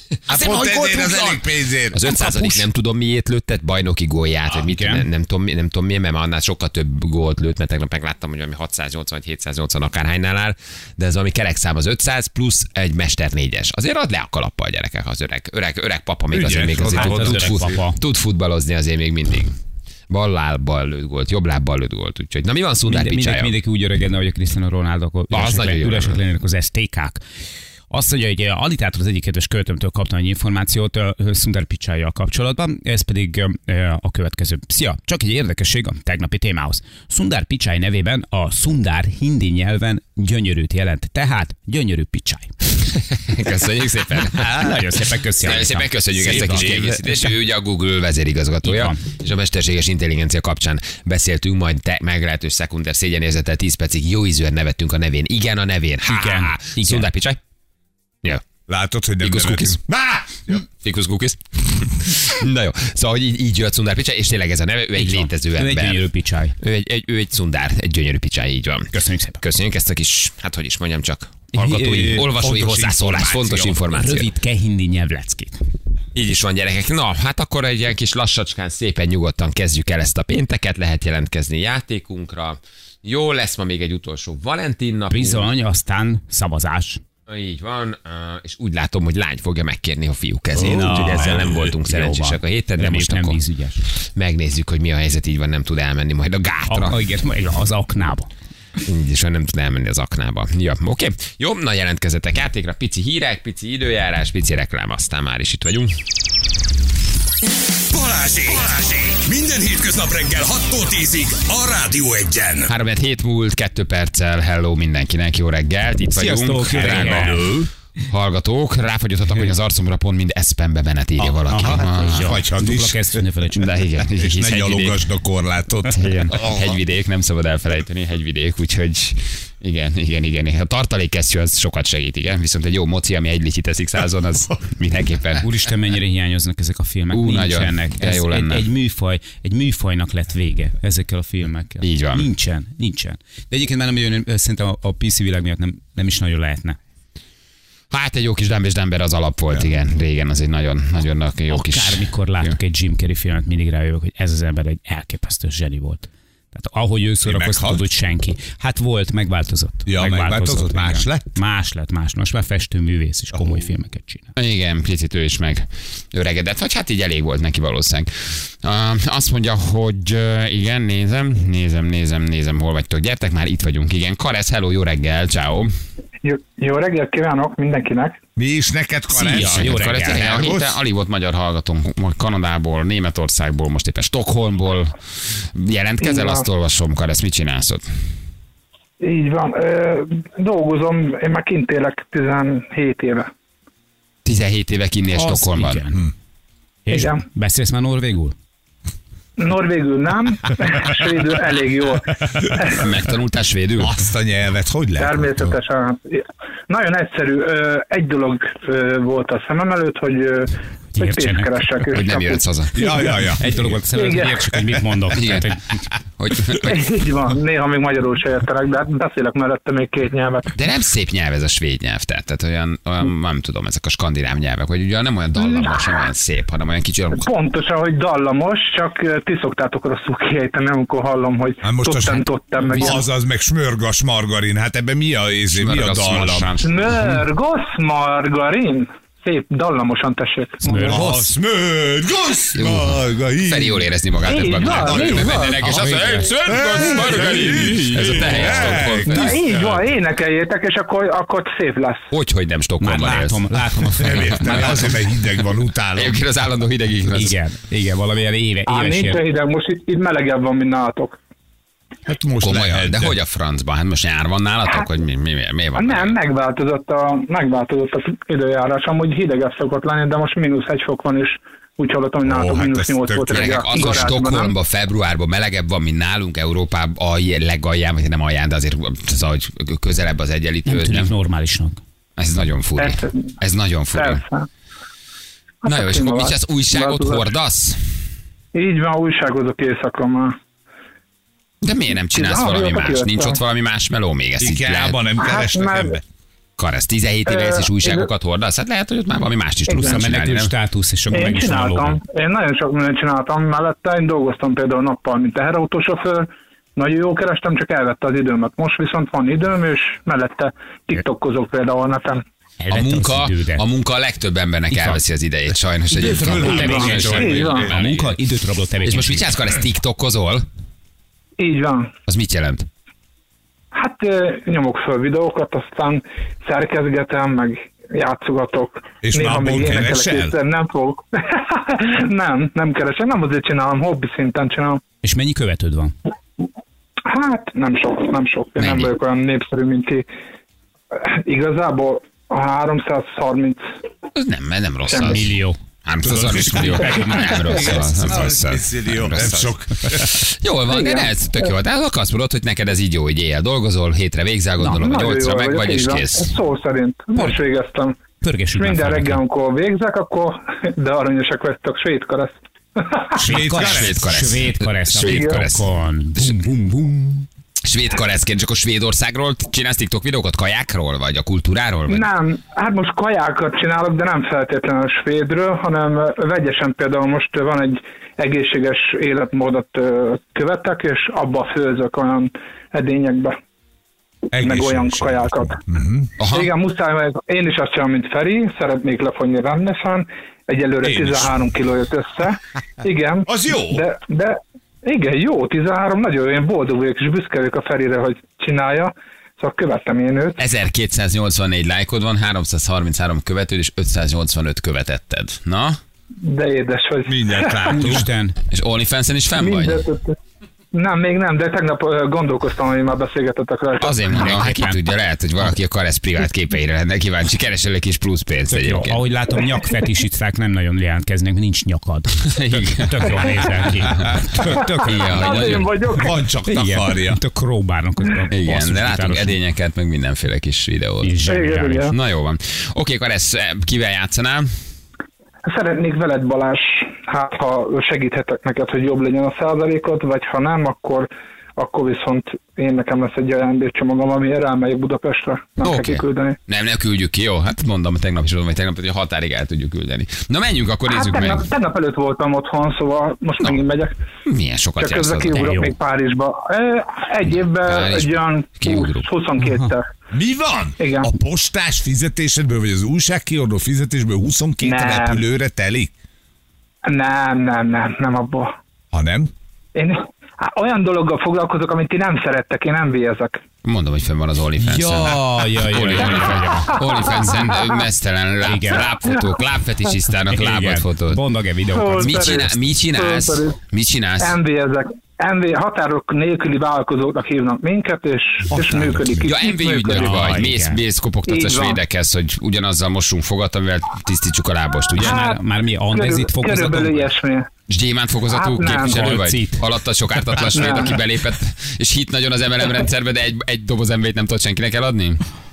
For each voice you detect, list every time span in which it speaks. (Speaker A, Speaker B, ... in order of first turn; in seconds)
Speaker A: 0.3-2.4, 16.3-17.8, 46.2-47.0, 58.7-60.6, 71.8-73.8, 90.5-91.7, 116.7-117.7, 121.2-123.2, 124.2-126.8, 157.2-157.8, 159.8-161.3, 178.3-180.7, 203.8-205.6, 212.7-213.8, 231.6-236.5, 240.8-249.8, 254.0-256.2, 262.1-263.1, 272.2-274.2, 294.4-296.0, 315.9-317.7, 329.0-330.4, 346.0-350.2, 363.2-364.0, 384.3-386.1, 390.8-391.3, 393.2-393.8, 407.1-408.1, 424.0-425.0, 425.9-427.2, 460.1-465.9, 468.9-469.3, 488.5-489.3
Speaker B: 0.3-1.4, 2.2-2.5, 4.5-5.0, 16.9-18.0, 22.9-27.2, 27.9-42.5, 44.3-47.3, 48.6-49.0, 56.0-57.1, 65.0-66.5, 68.9-69.4, 71.5-72.3, 73.9-75.6, 85.1-87.0, 90.5-93.8, 96.7-98.3, 116.1-117.5, 121.5-123.7, 135.4-146.8, 151.5-164.3, 179.2-180.2, 195.1-196.1, 196.8-198.3, 210.9-211.7, 213.2-215.8, 240.6-241.3, 245.8-246.2, 252.8-254.8, 257.1-259.2, 280.6-281.8, 299.7-302.0, 312.6-313.6, 314.7-315.0, 315.9-319.3, 335.0-335.9, 344.9-347.8, 358.2-359.2, 363.1-367.3, 407.7-408.4, 414.1-414.8, 418.5-424.5, 426.4-429.3, 431.0-431.9, 455.3-455.7, 459.4-459.7, 474.6-477.2, 478.4-478.9, 480.3-482.4, 489.9-490.8, 495.0-497.1, 498.8-499.6
Speaker C: 1.0-1.4, 1.9-19.6, 20.1-23.5, 25.3-26.2, 43.1-44.8, 45.4-57.4, 59.2-59.8, 60.8-66.0, 66.6-74.3, 76.1-85.5, 87.3-97.0, 98.8-105.9, 112.7-117.5, 118.1-122.3, 123.5-125.0, 125.9-135.4, 137.1-138.7, 141.8-142.3, 147.9-152.5, 164.3-175.7, 179.2-187.8, 194.2-195.8, 202.6-203.9, 211.9-212.8, 215.1-215.5, 216.2-216.8, 220.5-227.3, 235.5-237.1, 242.5-249.4, 252.1-253.4, 254.0-254.9, 255.9-257.4, 262.4-266.1, 273.3-281.1, 282.2-284.2, 285.6-287.9, 291.6-295.0, 296.6-300.5, 312.7-318.2, 318.8-320.4, 322.1-322.6, 338.6-338.9, 344.1-345.3, 345.8-356.3, 363.3-366.4, 367.6-372.1, 386.2-386.5, 400.4-405.8, 408.5-409.8, 413.8-419.0, 422.4-425.7, 428.3-431.1, 431.9-434.5, 445.6-451.5, 454.2-455.5, 457.3-459.1, 473.6-481.2, 482.0-484.4, 489.2-495.3, 497.7-505.2
Speaker D: 107.9-112.7
Speaker E: 176.2-178.2, 186.0-186.4, 189.0-193.3, 196.9-197.2, 199.4-202.8, 205.0-213.1, 213.9-214.4, 216.5-220.5, 225.4-225.8, 227.1-233.0, 236.6-241.0, 244.2-245.7, 249.1-252.1, 258.7-261.2, 265.8-274.5, 282.8-283.3, 283.9-284.5, 285.6-287.2, 288.5-290.4, 292.1-293.4, 295.2-296.0, 297.3-298.1, 299.7-300.0, 301.1-312.2, 316.6-317.7, 321.4-321.9, 323.7-334.8, 337.1-340.1, 340.9-343.6, 344.9-345.2, 350.7-351.1, 354.6-358.0, 358.5-363.1, 365.1-365.4, 371.9-383.4, 384.3-385.6, 386.2-400.4, 406.2-407.8, 409.4-410.2, 410.7-414.0, 424.4-426.1, 431.2-431.9, 435.4-446.4, 450.9-453.9, 454.8-459.9, 460.8-461.1, 464.6-465.2, 466.9-468.5, 469.7-473.4, 476.4-477.6, 481.7-483.6, 484.2-490.2, 491.3-491.8, 495.0-495.4, 495.9-497.5, 498.3-499.2, 500.5-501.0